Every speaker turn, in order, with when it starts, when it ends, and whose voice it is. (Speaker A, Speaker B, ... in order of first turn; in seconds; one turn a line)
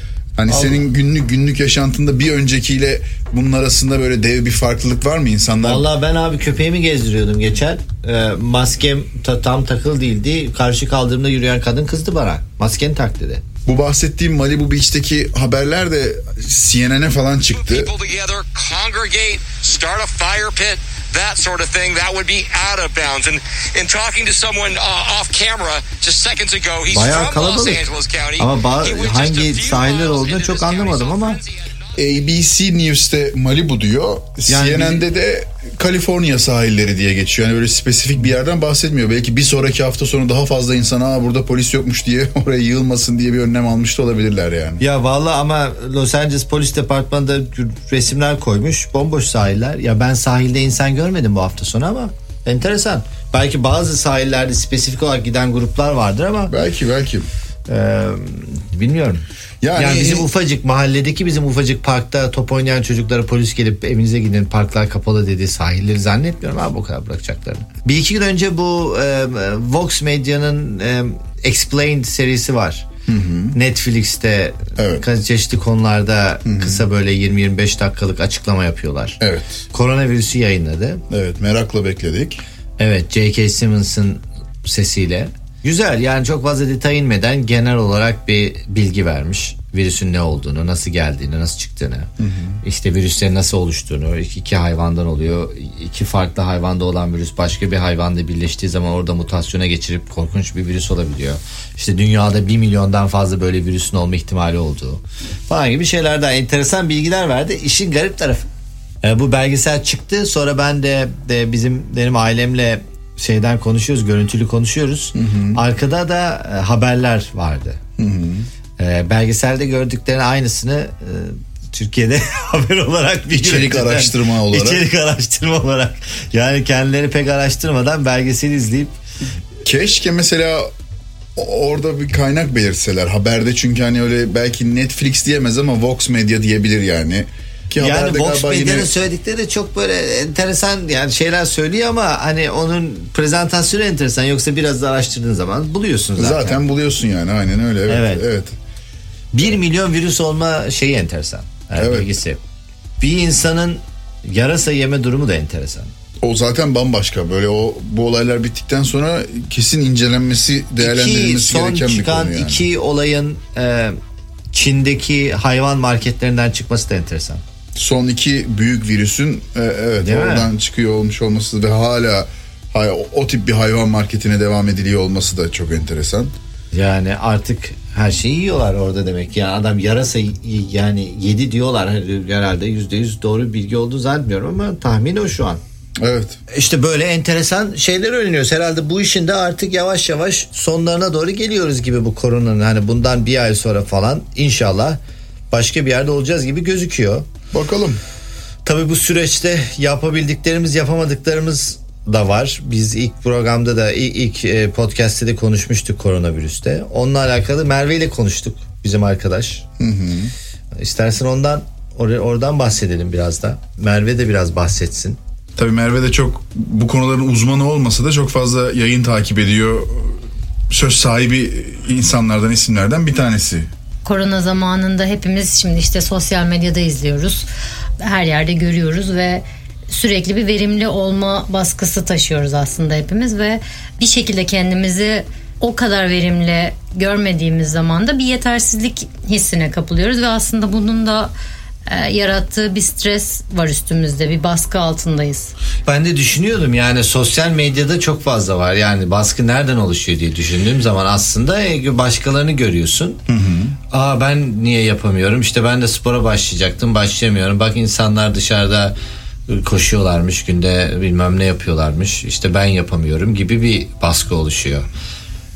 Speaker A: 0.4-5.8
Speaker B: 0.5-0.8
Speaker B: 5.6-13.4
Speaker A: 13.7-17.9
Speaker C: 17.6-31.9
Speaker B: 26.9-27.9
Speaker B: 28.4-31.4
Speaker A: 31.9-44.8
Speaker B: 34.5-35.0
Speaker B: 44.8-56.5
Speaker A: 56.5-57.3
Speaker B: 57.7-59.2
Speaker A: 59.6-60.3
Speaker B: 59.8-72.9
Speaker A: 73.1-73.5
Speaker B: 73.5-79.2
Speaker A: 74.8-75.0
Speaker A: 76.5-76.8
Speaker A: 79.2-79.6
Speaker B: 79.7-81.0
Speaker A: 81.1-82.4
Speaker B: 82.8-92.1
Speaker A: 92.2-92.6
Speaker B: 92.6-108.5
Speaker B: 109.0-117.8
Speaker A: 115.2-115.6
Speaker A: 118.0-118.5
Speaker B: 118.8-129.0
Speaker A: 123.3-124.8
Speaker A: 129.6-130.7
Speaker A: 131.4-139.0
Speaker B: 137.8-146.6
Speaker A: 146.2-148.6
Speaker B: 147.9-148.2
Speaker B: 149.3-152.4
Speaker A: 151.8-152.1
Speaker B: 153.0-155.9
Speaker A: 156.2-162.7
Speaker B: 160.8-164.0
Speaker B: 164.5-167.4
Speaker A: 167.8-176.3
Speaker B: 170.0-170.5
Speaker B: 176.7-185.6
Speaker A: 186.0-186.4
Speaker B: 186.5-195.0
Speaker B: 195.5-197.3
Speaker A: 197.5-198.0
Speaker B: 198.7-209.6
Speaker A: 209.8-210.3
Speaker B: 210.8-215.2
Speaker A: 215.6-223.7
Speaker D: 224.1-227.4
Speaker D: 228.0-241.3
Speaker D: 241.9-245.5
Speaker B: 245.9-253.2
Speaker A: 253.3-253.8
Speaker B: 253.9-258.9
Speaker B: 259.5-264.9